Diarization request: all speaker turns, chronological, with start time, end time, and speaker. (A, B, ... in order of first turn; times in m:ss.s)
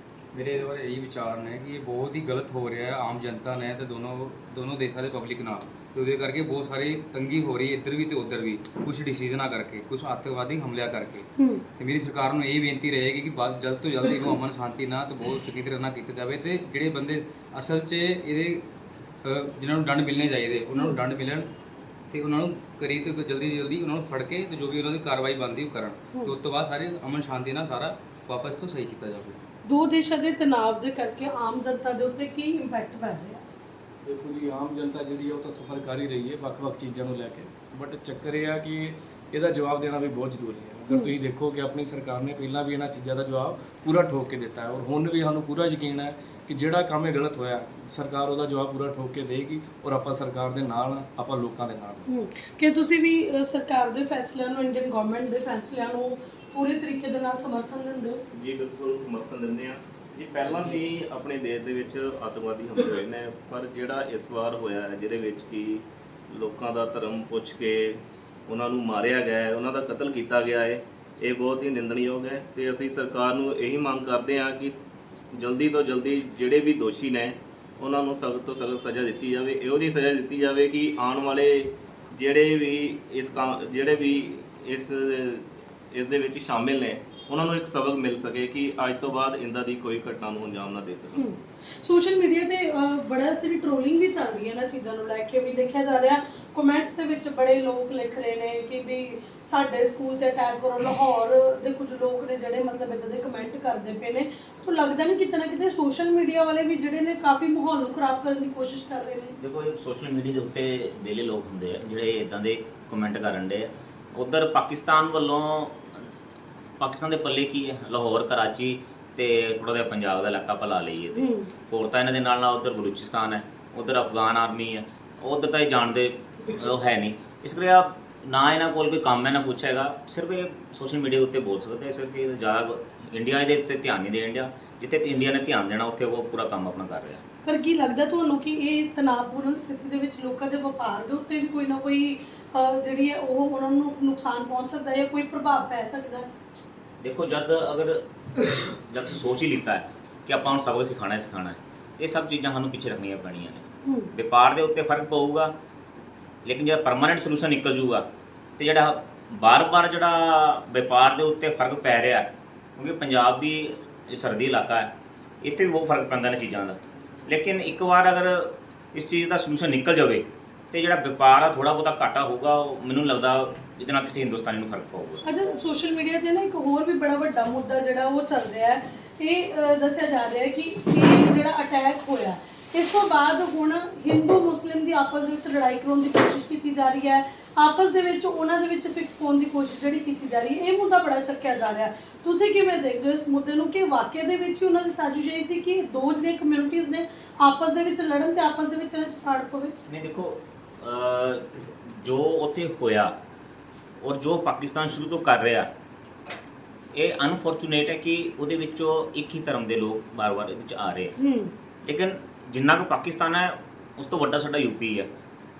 0:00.3-0:18.6 A
0:19.2-0:21.5 A
0:22.1-0:29.4 A
0:29.7-0:33.4 B
0:34.0-0:52.1 C
0:40.9-0:41.1 B
0:52.1-0:58.2 B
0:58.3-1:14.8 D
1:15.4-1:31.3 D
1:31.2-1:49.4 B
1:49.4-1:56.0 E
1:56.8-2:17.2 E
2:01.2-2:01.5 B
2:17.4-2:26.3 B
2:27.0-2:35.5 E
2:33.8-2:34.1 B
2:36.4-2:38.0 E
2:38.6-2:44.9 E
2:45.4-2:55.2 E
2:55.2-3:19.8 B
3:19.9-3:23.1 E
3:24.0-3:25.7 E
3:26.9-3:31.1 E
3:31.2-3:31.5 B
3:31.8-3:35.1 E